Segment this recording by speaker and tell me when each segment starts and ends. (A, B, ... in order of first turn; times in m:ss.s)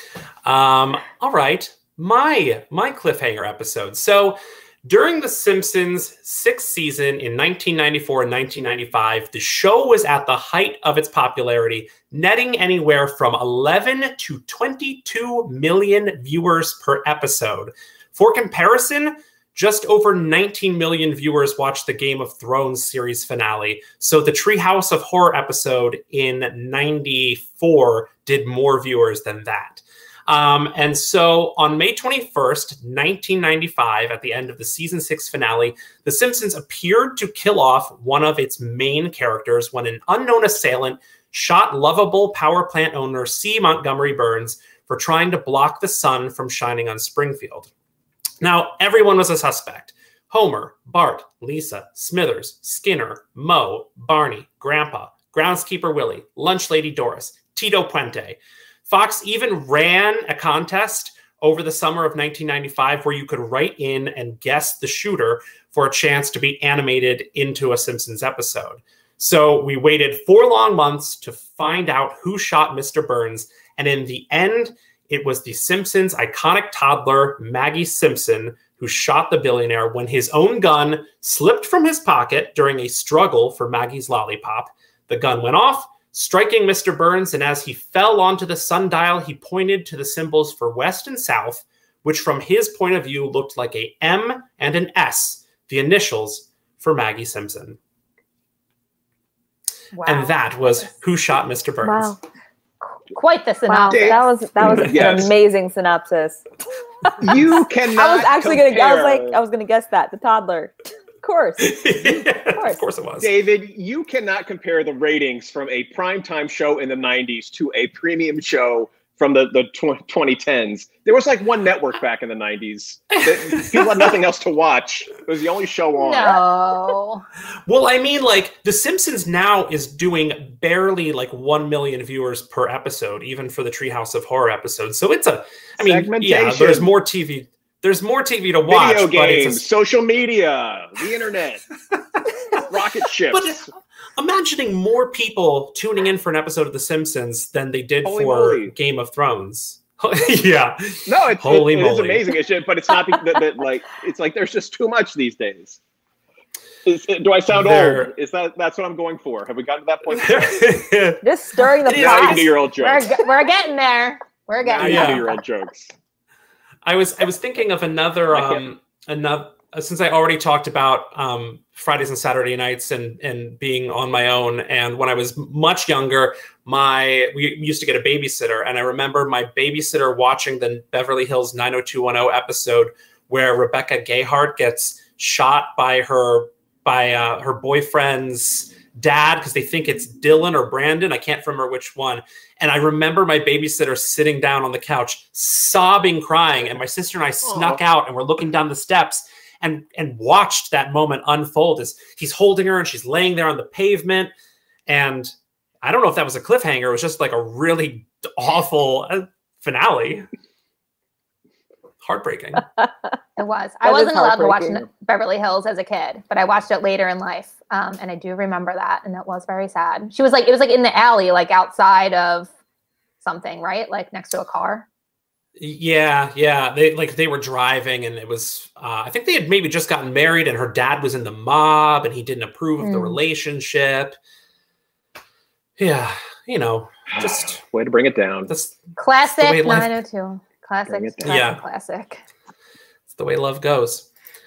0:00.4-0:47.7 A
0:48.4-1:37.8 A
1:39.9-1:40.4 B
1:40.0-1:42.2 A
1:41.8-1:42.2 C
1:43.1-1:44.3 B
1:43.7-1:46.4 C
1:43.9-1:45.3 D
1:47.0-1:52.8 C
1:47.2-1:49.4 D
1:51.6-1:53.3 A
1:53.2-2:06.4 D
2:03.4-2:03.9 A
2:06.0-2:07.2 B
2:07.7-2:19.6 A
2:15.8-2:16.9 D
2:18.7-2:21.6 D
2:22.7-2:23.7 D
2:23.3-2:32.3 A
2:28.0-2:28.7 D
2:31.1-2:35.8 D
2:36.8-2:40.7 D
2:37.5-2:38.1 A
2:40.1-2:42.5 A
2:41.2-2:42.5 C
2:41.9-2:43.1 D
2:42.8-2:45.3 B
2:44.6-2:45.9 D
2:44.8-2:45.3 A
2:46.8-3:24.3 A
2:48.3-2:48.7 D
3:17.5-3:17.8 D
3:24.9-3:30.3 A
3:32.0-3:32.7 A
3:33.4-3:42.5 B
3:33.8-3:34.8 C
3:43.2-3:44.9 B
3:45.6-3:54.2 A
3:52.8-3:53.2 B
3:55.8-3:57.6 A
3:57.1-3:58.5 D
3:58.5-4:00.0 A
3:59.0-4:02.2 B
4:00.9-4:01.4 D
4:01.2-4:01.6 A
4:03.1-4:04.1 A